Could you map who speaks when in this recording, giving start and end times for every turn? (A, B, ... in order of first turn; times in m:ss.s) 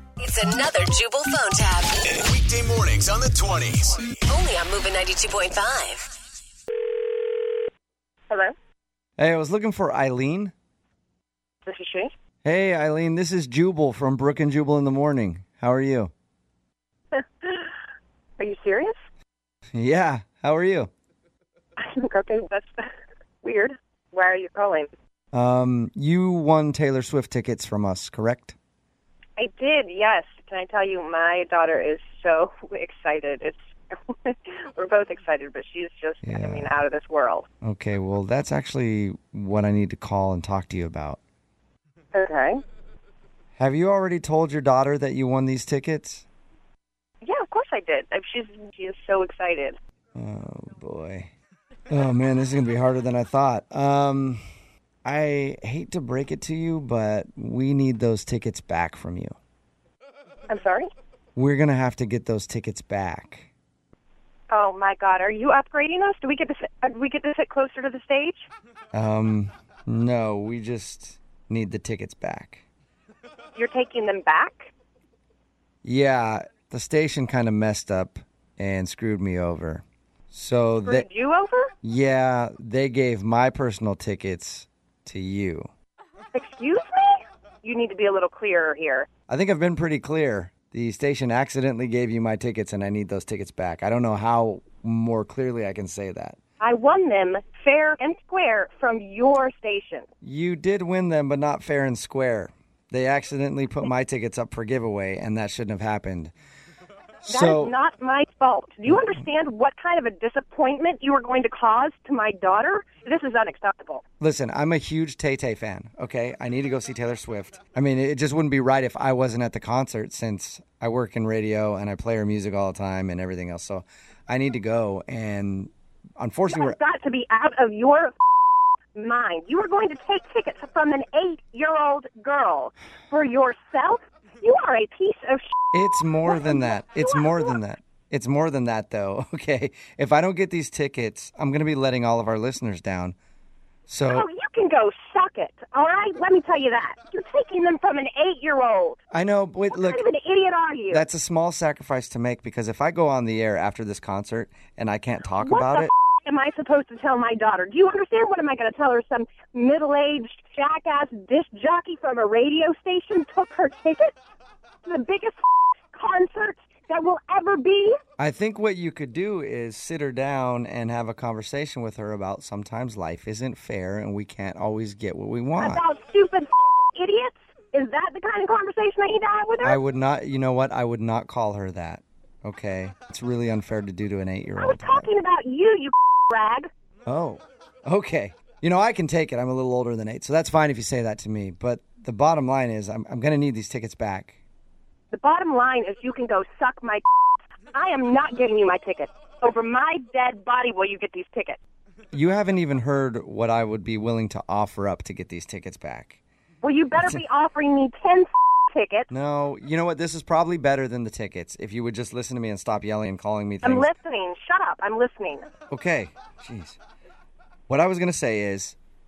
0:00.2-0:02.2 A
0:02.1-0:04.1 B
0:04.3-0:06.1 A
0:08.3-0:08.5 C
0:09.2-0:10.5 D
0:11.6-0:12.1 C
0:12.4-0:16.1 D
0:17.1-0:17.7 C
0:18.4-0:19.0 C
0:19.8-0:20.9 D
0:21.8-0:22.9 C
0:23.4-0:24.9 C
0:25.3-0:28.6 D
0:29.4-0:37.5 C
0:36.2-0:36.7 D
0:37.6-0:41.2 D
0:42.1-0:42.6 C
0:43.6-0:46.2 D
0:47.2-0:49.8 C
0:50.2-0:51.3 D
0:51.9-0:54.4 D
0:55.0-0:59.4 D
1:00.5-1:00.9 C
1:01.4-1:03.5 D
1:04.5-1:08.5 C
1:08.9-1:12.6 D
1:13.6-1:14.7 C
1:15.8-1:21.1 D
1:20.8-1:21.7 C
1:21.8-1:25.7 D
1:26.3-1:29.1 C
1:29.3-1:36.4 D
1:36.6-1:40.1 C
1:40.2-1:46.3 D
1:47.2-1:47.7 D
1:47.3-1:54.0 C
1:54.2-2:06.8 D
2:06.5-2:08.2 C
2:08.9-2:15.4 C
2:15.7-2:23.2 D
2:16.2-2:17.6 C
2:23.9-2:24.3 D
2:24.1-2:29.0 C
2:29.1-2:30.0 D
2:29.7-2:31.0 C
2:30.9-2:35.9 D
2:35.4-2:44.2 C
2:44.8-2:45.4 C
2:45.9-2:48.0 C
2:48.2-2:55.8 D
2:55.6-2:59.8 C
2:59.6-3:05.1 D
3:04.6-3:06.7 C
3:07.1-3:14.4 D
3:15.1-3:17.0 C
3:17.7-3:21.6 C
3:22.1-3:26.2 D
3:26.6-3:29.1 C
3:29.1-3:33.9 D
3:33.6-3:35.5 C
3:35.7-3:36.8 D
3:37.7-3:38.8 D